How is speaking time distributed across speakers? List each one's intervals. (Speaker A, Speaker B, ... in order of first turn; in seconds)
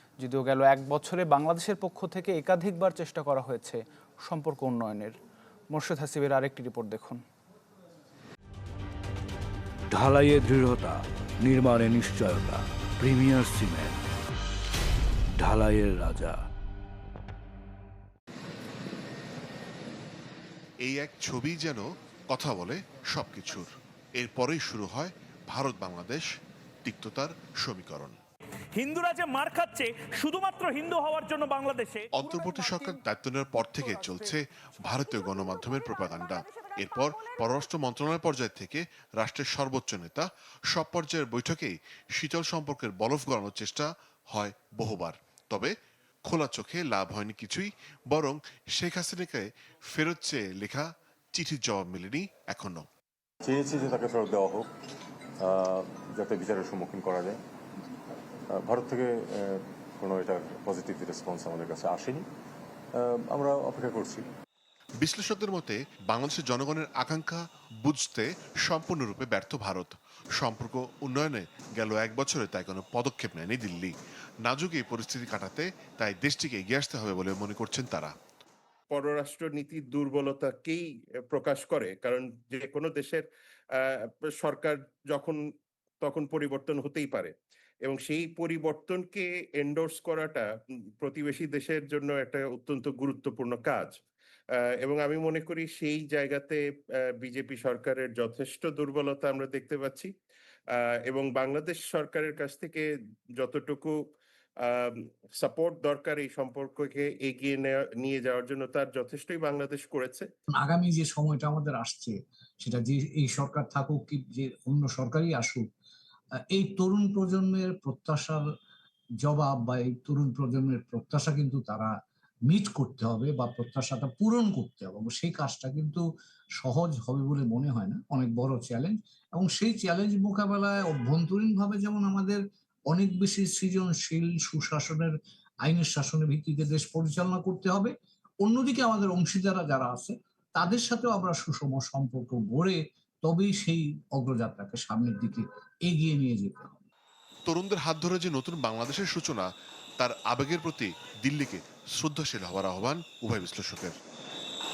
Speaker A: 0.2-5.2, 5.7-7.2
Speaker B: 9.9-14.0, 15.4-16.4
Speaker C: 20.8-26.3, 26.8-28.2, 32.1-45.7, 46.3-52.9, 65.0-73.9, 74.4-78.1, 147.5-154.0
Speaker D: 28.8-32.1
Speaker E: 53.4-54.7, 55.4-57.4, 58.5-62.3, 63.0-64.3
Speaker F: 78.9-85.4, 86.0-90.5, 91.0-94.0, 94.6-96.6, 97.2-100.1, 100.8-102.9, 103.4-104.0, 104.6-110.3
Speaker G: 110.5-115.7, 116.5-118.5, 119.2-121.9, 122.5-126.0, 126.6-137.9, 138.4-146.8